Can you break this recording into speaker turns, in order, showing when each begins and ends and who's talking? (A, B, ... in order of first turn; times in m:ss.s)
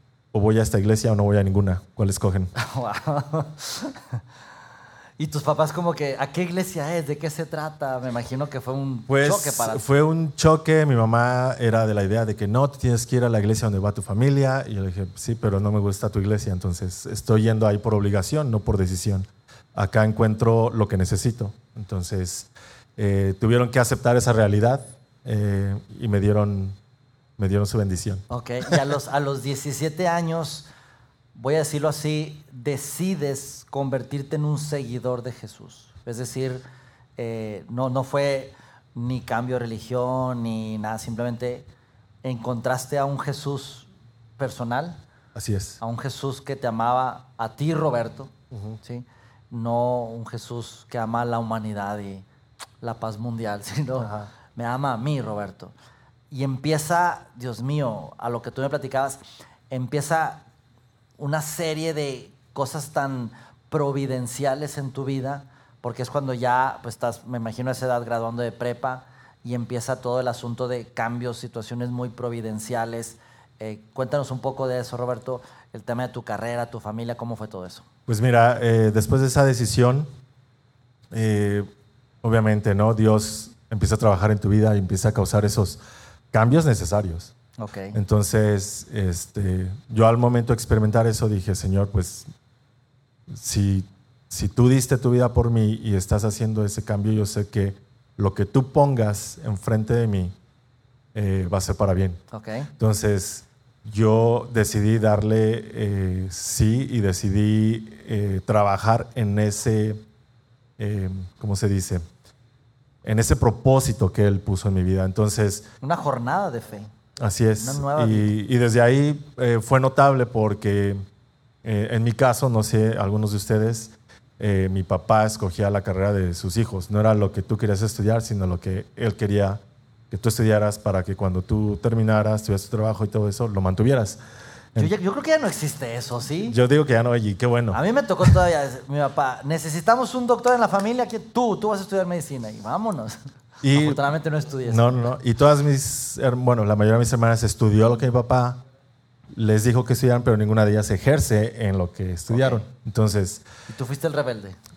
0:00.3-0:02.5 A
0:02.6-0:04.2 B
0:05.2-0:09.8 B
0:09.1-0:26.8 A
0:27.4-0:28.8 A
0:28.3-0:30.7 B
0:31.4-0:36.6 B
0:37.2-0:41.7 B
0:42.2-0:45.0 B
0:45.4-0:45.8 A
0:45.8-0:52.2 B
0:48.5-0:48.8 A
0:52.8-0:55.7 B
0:54.0-0:54.3 A
0:56.3-1:00.4 B
1:01.2-1:17.8 B
1:18.1-1:20.1 A
1:21.1-1:21.7 A
1:22.2-1:25.8 A
1:26.3-1:27.3 A
1:27.6-1:28.0 B
1:27.9-1:32.3 A
1:33.3-1:40.4 A
1:41.1-1:42.2 A
1:42.3-1:42.7 B
1:42.8-1:50.0 A
1:50.8-1:52.0 A
1:53.0-1:55.6 A
1:55.8-1:56.9 B
1:57.2-2:01.0 A
1:57.6-1:58.3 B
2:01.6-2:14.2 A
2:14.8-2:16.6 B
2:16.5-2:18.3 A
2:17.7-2:23.2 B
2:23.6-2:24.0 A
2:23.7-2:25.1 B
2:24.6-2:28.6 A
2:29.3-2:33.4 A
2:32.3-2:32.6 B
2:33.7-2:34.6 B